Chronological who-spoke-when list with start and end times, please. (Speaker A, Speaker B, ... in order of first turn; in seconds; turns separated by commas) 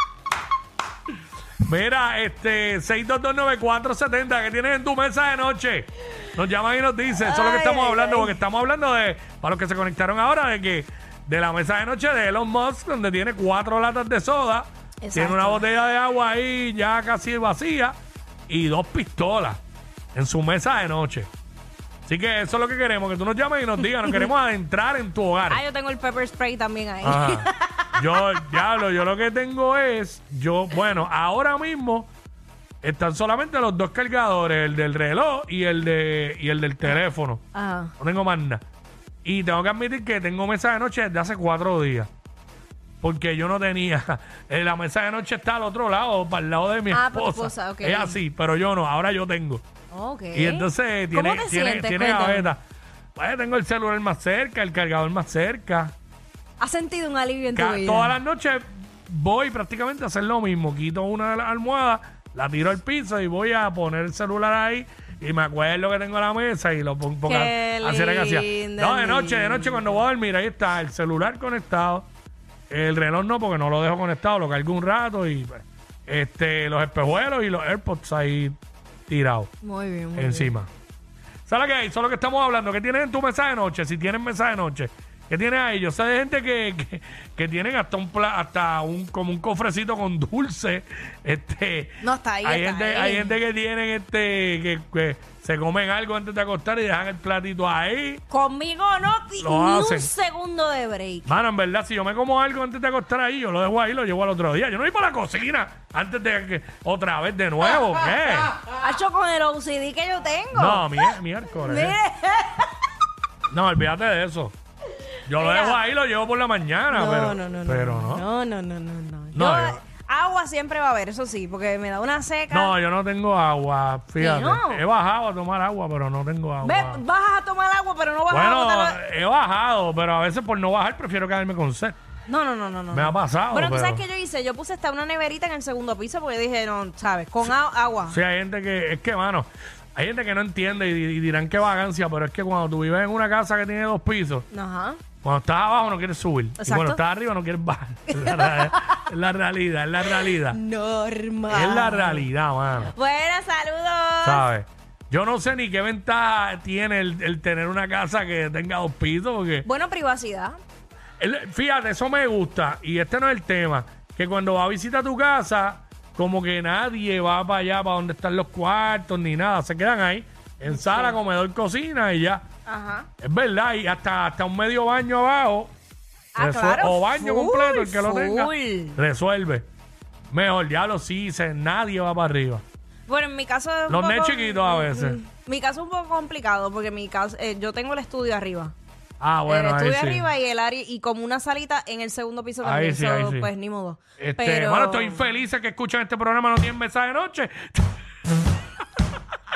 Speaker A: 1.6-17.9, Speaker B: 7.2-8.4, Speaker B: 15.0-15.6, Speaker A: 18.5-19.6, Speaker A: 20.1-21.3, Speaker A: 22.1-25.6, Speaker B: 25.5-28.6, Speaker A: 27.0-32.1, Speaker A: 32.8-37.4, Speaker B: 37.5-37.9, Speaker A: 38.0-38.6, Speaker A: 39.2-42.1, Speaker A: 43.0-49.6, Speaker B: 46.9-48.2, Speaker B: 49.9-52.5, Speaker A: 50.3-52.6, Speaker A: 53.2-56.0, Speaker B: 56.6-58.2, Speaker A: 57.5-72.1, Speaker B: 67.2-70.0, Speaker A: 72.7-78.6, Speaker A: 79.1-79.5, Speaker B: 79.6-80.5, Speaker A: 80.2-80.7, Speaker A: 81.5-98.2, Speaker B: 92.0-93.4, Speaker B: 98.3-101.3, Speaker A: 99.4-100.1, Speaker A: 101.3-108.5, Speaker B: 108.6-112.7, Speaker A: 110.5-112.0, Speaker A: 113.5-114.5, Speaker A: 115.3-118.2, Speaker B: 115.3-115.8, Speaker B: 116.9-122.7, Speaker A: 119.3-119.8, Speaker A: 122.5-127.0, Speaker B: 124.2-124.8, Speaker B: 126.6-129.0, Speaker A: 128.3-131.9, Speaker B: 132.3-138.2, Speaker A: 132.9-134.0, Speaker A: 138.1-144.5, Speaker B: 144.5-145.0, Speaker A: 145.2-150.6, Speaker B: 146.6-147.0, Speaker B: 148.1-149.0, Speaker B: 150.1-152.3, Speaker A: 151.5-152.9, Speaker B: 152.8-154.5, Speaker A: 154.2-159.7, Speaker B: 159.6-160.6, Speaker A: 161.2-172.4, Speaker B: 170.7-171.2, Speaker B: 172.7-173.1, Speaker A: 173.2-175.7, Speaker B: 176.3-179.0, Speaker A: 176.4-179.7, Speaker A: 180.3-182.6, Speaker B: 183.1-188.7, Speaker A: 183.9-185.2, Speaker A: 189.2-190.3, Speaker B: 189.5-195.2, Speaker A: 192.6-193.5, Speaker A: 194.2-197.8